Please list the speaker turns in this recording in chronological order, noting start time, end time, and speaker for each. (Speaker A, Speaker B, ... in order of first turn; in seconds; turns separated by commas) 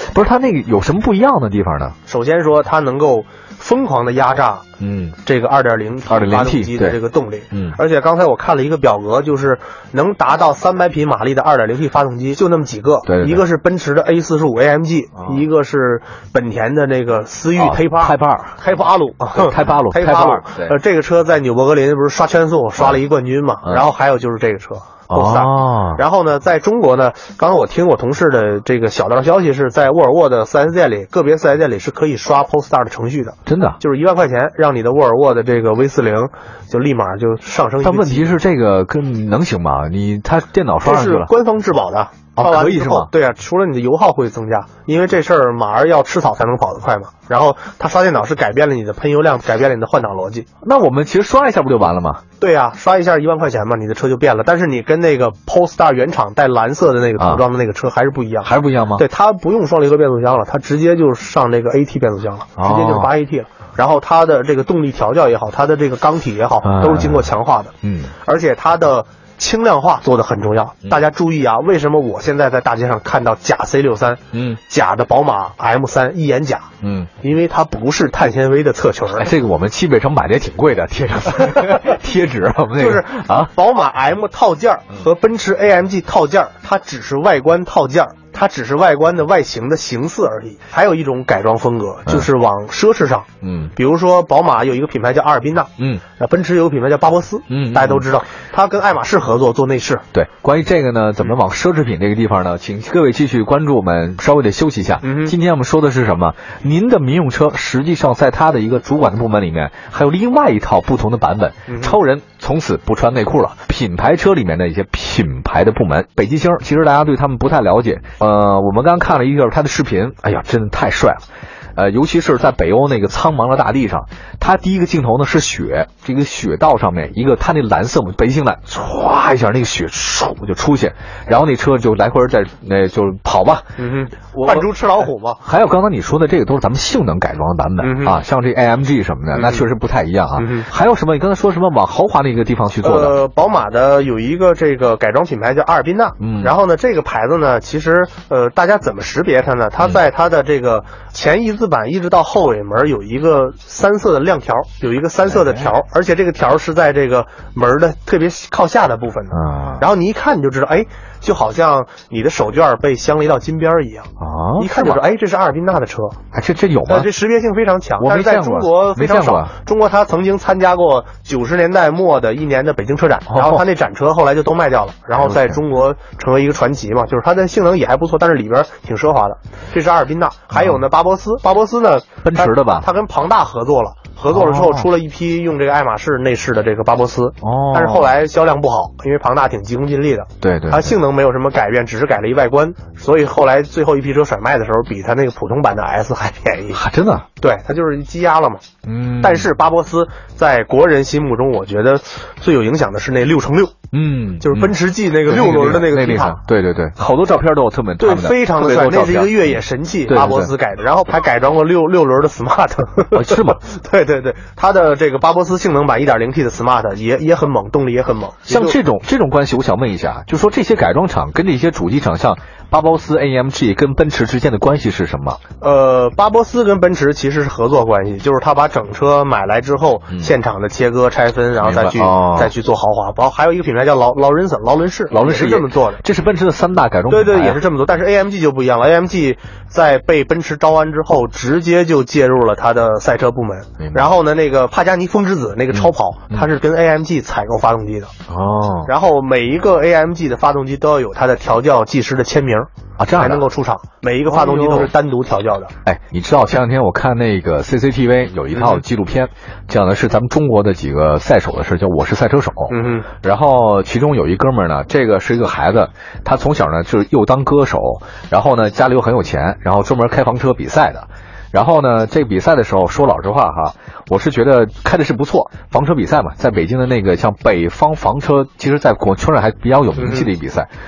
Speaker A: 0.1-2.0, Speaker B: 2.1-4.6, Speaker A: 4.8-5.2, Speaker B: 5.2-38.4, Speaker A: 6.1-7.0, Speaker A: 7.5-7.8, Speaker A: 13.1-13.4, Speaker A: 17.6-18.6, Speaker A: 19.3-20.8, Speaker A: 25.1-26.0, Speaker A: 33.5-33.8, Speaker A: 37.8-41.3, Speaker B: 40.8-50.5, Speaker A: 42.4-43.1, Speaker A: 50.6-52.2, Speaker B: 52.4-67.7, Speaker A: 58.5-59.0, Speaker A: 62.6-63.1, Speaker A: 66.6-67.3, Speaker A: 67.8-68.1, Speaker B: 68.2-76.7, Speaker A: 74.3-74.6, Speaker A: 76.8-77.1, Speaker B: 77.2-79.3, Speaker A: 79.1-83.5, Speaker B: 82.8-100.0, Speaker A: 93.4-93.7, Speaker A: 95.8-96.0, Speaker A: 97.5-98.0, Speaker A: 100.1-121.2, Speaker B: 105.0-105.4, Speaker B: 111.7-112.0, Speaker A: 121.8-133.8, Speaker B: 133.8-135.4, Speaker A: 134.3-143.2, Speaker B: 137.8-138.2, Speaker B: 139.3-139.7, Speaker B: 140.4-140.7, Speaker B: 142.8-166.2, Speaker A: 146.2-146.5, Speaker A: 155.2-155.7, Speaker A: 159.3-159.9, Speaker A: 164.2-165.0, Speaker A: 166.3-167.1, Speaker B: 166.9-196.8, Speaker A: 168.0-169.5, Speaker A: 173.3-173.6, Speaker A: 175.2-175.6, Speaker A: 182.2-182.9, Speaker A: 184.3-184.9, Speaker A: 187.4-188.1, Speaker A: 190.4-191.0, Speaker A: 196.7-197.3, Speaker B: 197.4-198.6, Speaker A: 198.8-199.5, Speaker B: 199.2-203.7, Speaker A: 203.9-210.5, Speaker B: 204.4-206.4, Speaker B: 208.0-218.8, Speaker A: 213.1-213.6, Speaker A: 218.5-225.4, Speaker B: 225.6-236.0, Speaker A: 231.6-232.5, Speaker A: 235.1-237.6, Speaker B: 237.1-248.1, Speaker A: 243.8-244.1, Speaker A: 245.7-246.5, Speaker A: 248.3-248.9, Speaker B: 248.9-255.7, Speaker A: 253.0-253.4, Speaker A: 254.3-254.9, Speaker A: 255.8-280.7, Speaker B: 258.5-258.8, Speaker B: 262.7-263.1, Speaker B: 280.0-280.3